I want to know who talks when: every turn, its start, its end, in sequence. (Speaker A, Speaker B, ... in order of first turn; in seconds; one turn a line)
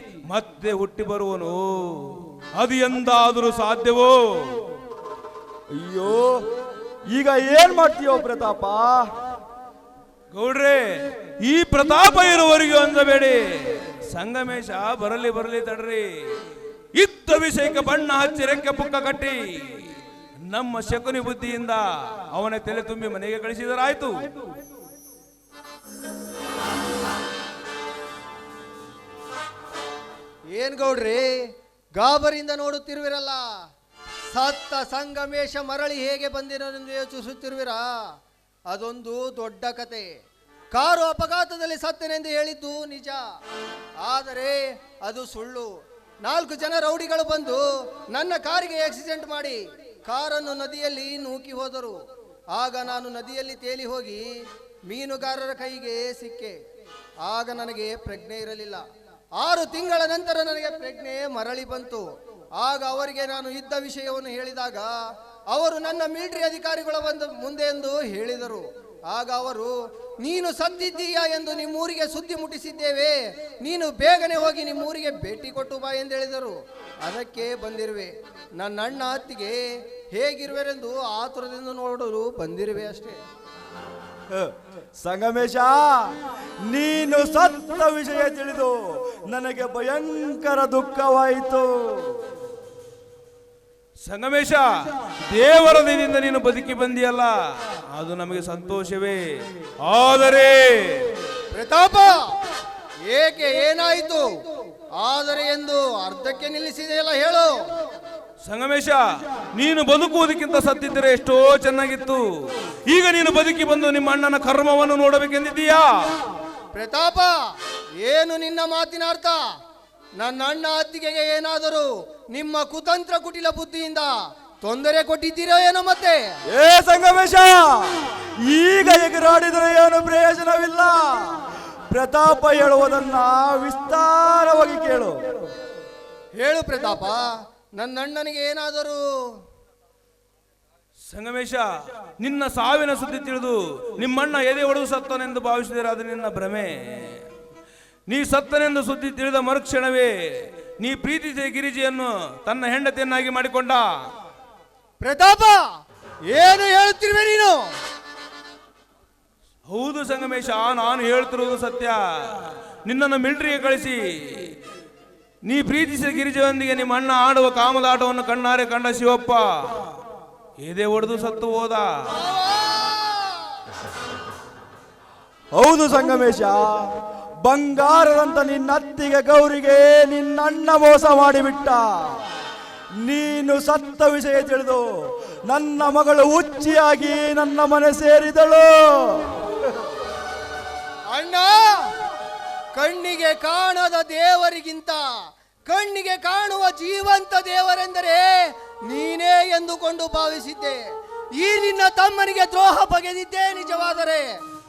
Speaker A: 0.2-4.6
Speaker B: 5.7-6.4
Speaker B: 7.1-9.1
Speaker A: 10.3-10.8
Speaker A: 11.4-16.1
Speaker A: 16.9-19.9
Speaker A: 20.5-24.1
Speaker C: 30.5-31.4
Speaker C: 32.0-33.4
Speaker C: 34.3-37.8
Speaker C: 38.7-40.1
Speaker C: 40.7-43.2
Speaker C: 44.0-45.7
Speaker C: 46.2-52.0
Speaker C: 52.5-54.3
Speaker C: 54.9-56.6
Speaker C: 57.2-58.8
Speaker C: 59.4-62.0
Speaker C: 62.6-64.9
Speaker C: 65.5-83.2
Speaker B: 84.3-92.2
Speaker A: 94.0-94.6
Speaker A: 95.3-97.3
Speaker A: 97.9-99.2
Speaker A: 99.8-101.1
Speaker C: 101.5-102.2
Speaker C: 103.1-104.3
Speaker C: 105.0-107.5
Speaker A: 108.5-109.0
Speaker A: 109.5-112.2
Speaker A: 112.9-115.9
Speaker C: 116.7-117.3
Speaker C: 118.0-119.4
Speaker C: 120.2-124.1
Speaker C: 124.6-126.2
Speaker B: 126.5-135.2
Speaker C: 136.4-139.0
Speaker A: 141.1-141.6
Speaker A: 142.2-147.2
Speaker A: 148.1-150.1
Speaker A: 150.8-153.8
Speaker C: 155.0-155.7
Speaker C: 156.3-157.7
Speaker A: 159.7-164.5
Speaker A: 165.4-169.7
Speaker A: 170.6-171.8
Speaker C: 172.2-173.5
Speaker B: 175.5-176.9
Speaker B: 177.4-182.2
Speaker B: 183.0-184.8
Speaker B: 185.5-189.5
Speaker C: 191.1-191.9
Speaker C: 192.7-195.0
Speaker C: 195.7-198.3
Speaker C: 198.9-200.8
Speaker C: 201.4-204.2